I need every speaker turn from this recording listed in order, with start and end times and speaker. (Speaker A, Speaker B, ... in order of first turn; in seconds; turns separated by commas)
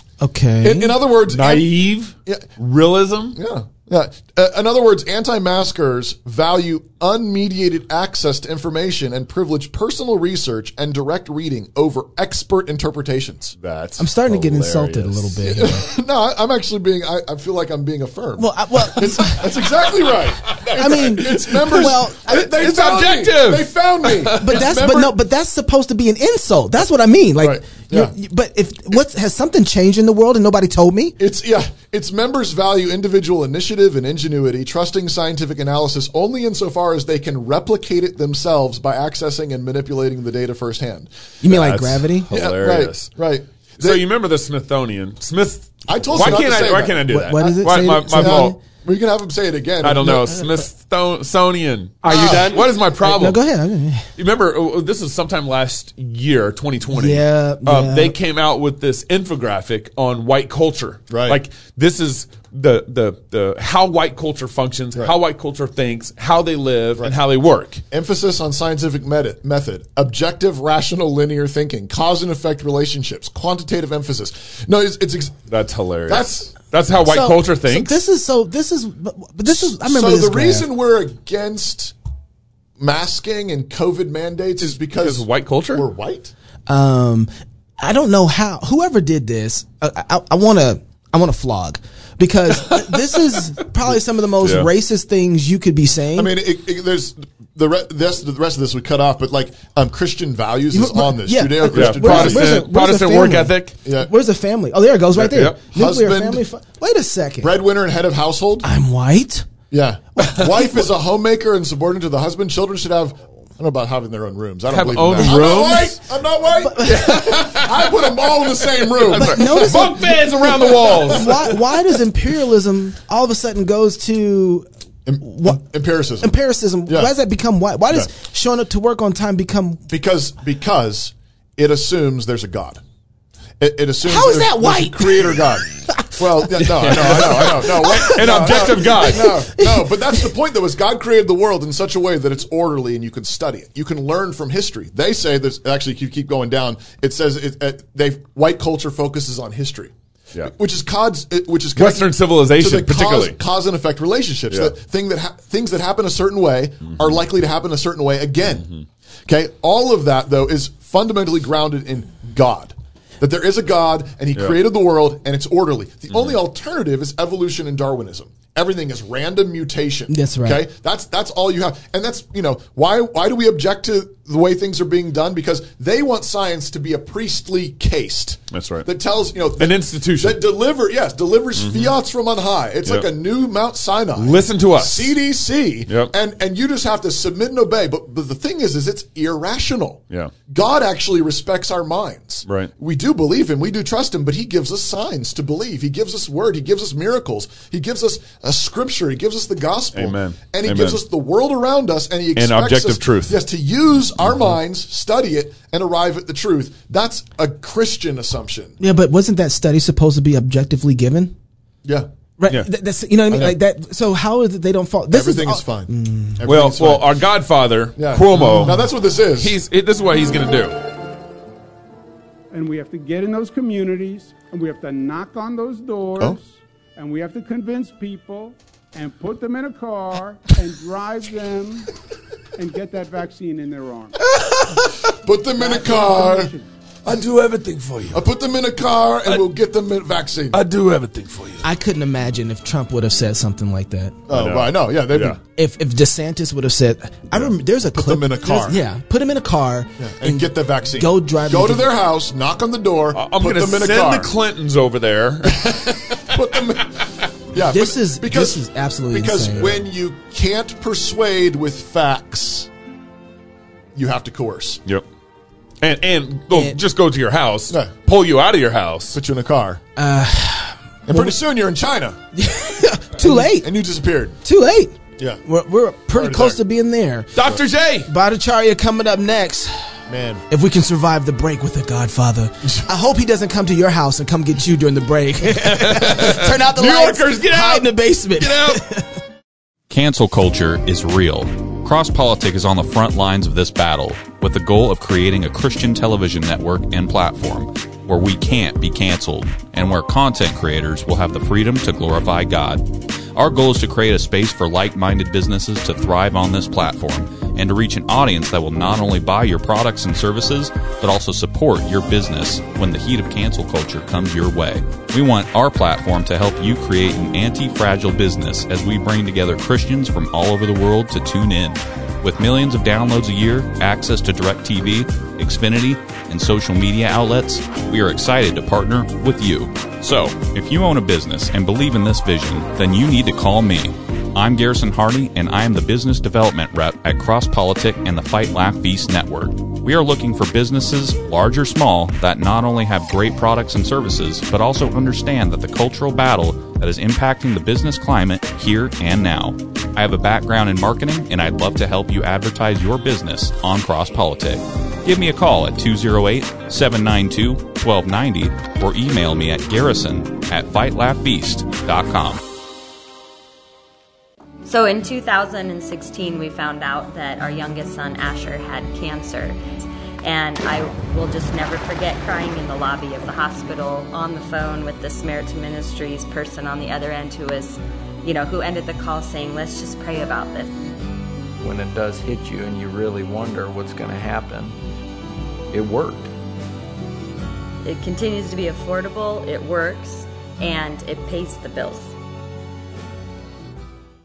Speaker A: 0.2-1.0, Speaker B: 0.6-1.7, Speaker C: 1.3-3.4, Speaker B: 3.3-13.5, Speaker C: 13.6-15.4, Speaker A: 14.0-15.9, Speaker B: 15.4-25.1, Speaker A: 18.4-19.5, Speaker C: 20.5-24.7, Speaker A: 20.7-22.5, Speaker A: 24.4-31.1, Speaker B: 27.4-28.1, Speaker B: 31.2-41.1, Speaker A: 41.4-42.3, Speaker C: 41.5-43.1, Speaker B: 42.3-44.0, Speaker C: 43.8-48.5, Speaker B: 45.9-47.1, Speaker A: 47.1-48.6, Speaker B: 48.1-50.5, Speaker C: 49.8-53.4, Speaker B: 52.0-52.6, Speaker A: 53.0-54.1, Speaker C: 54.2-67.8, Speaker A: 56.9-58.1, Speaker B: 61.1-61.4, Speaker B: 67.9-75.5, Speaker C: 75.5-78.0, Speaker B: 76.1-76.5, Speaker A: 77.0-80.7, Speaker B: 79.5-81.9, Speaker B: 82.8-86.3, Speaker C: 84.9-85.8, Speaker A: 86.7-96.3, Speaker C: 94.4-94.7, Speaker B: 96.1-102.6, Speaker A: 100.7-107.5, Speaker C: 101.7-103.7, Speaker B: 103.8-104.1, Speaker B: 105.2-106.4, Speaker C: 105.3-105.6, Speaker B: 107.4-108.7, Speaker A: 108.6-109.5, Speaker B: 109.7-121.4, Speaker C: 114.7-116.0, Speaker A: 116.6-117.2, Speaker C: 116.8-121.5, Speaker A: 119.1-124.7, Speaker B: 125.0-127.1, Speaker A: 125.2-125.6, Speaker A: 126.2-129.8, Speaker B: 129.9-132.8, Speaker B: 133.6-158.7, Speaker A: 134.0-140.2, Speaker C: 136.6-139.4, Speaker C: 151.8-153.4, Speaker C: 156.8-157.2, Speaker B: 159.3-208.8, Speaker A: 170.1-170.6, Speaker C: 178.5-178.9, Speaker C: 179.6-180.4, Speaker C: 181.5-181.9, Speaker C: 184.2-185.2, Speaker C: 185.9-186.1, Speaker C: 199.9-201.0, Speaker C: 202.3-203.4, Speaker A: 208.8-211.3, Speaker A: 212.4-216.4, Speaker B: 213.3-213.6, Speaker B: 215.1-217.2, Speaker C: 216.4-220.8, Speaker B: 218.0-219.6, Speaker A: 218.4-218.7, Speaker D: 222.5-231.9, Speaker D: 232.6-234.2, Speaker B: 234.7-236.5, Speaker D: 235.6-236.7, Speaker E: 237.1-238.2, Speaker B: 238.1-240.6, Speaker E: 240.5-241.6, Speaker A: 241.6-244.2, Speaker B: 244.3-245.4, Speaker C: 244.3-245.4, Speaker A: 245.6-251.9, Speaker B: 247.3-248.8, Speaker B: 250.0-254.3, Speaker C: 253.1-256.3, Speaker B: 255.7-257.0, Speaker B: 257.5-262.7, Speaker A: 257.7-259.8, Speaker B: 263.9-264.8, Speaker C: 265.8-269.2, Speaker A: 266.5-266.8, Speaker B: 269.1-269.8, Speaker A: 269.9-271.3, Speaker B: 271.1-272.2, Speaker A: 272.3-273.7, Speaker B: 273.2-274.4, Speaker A: 274.4-277.3, Speaker B: 276.1-276.6, Speaker C: 277.3-278.1, Speaker A: 278.1-279.9, Speaker B: 280.1-280.4, Speaker A: 280.5-289.1, Speaker C: 285.5-288.8, Speaker F: 289.9-362.4, Speaker G: 364.6-369.6, Speaker G: 370.2-380.7, Speaker H: 381.6-384.8, Speaker H: 385.7-386.3, Speaker G: 387.8-392.1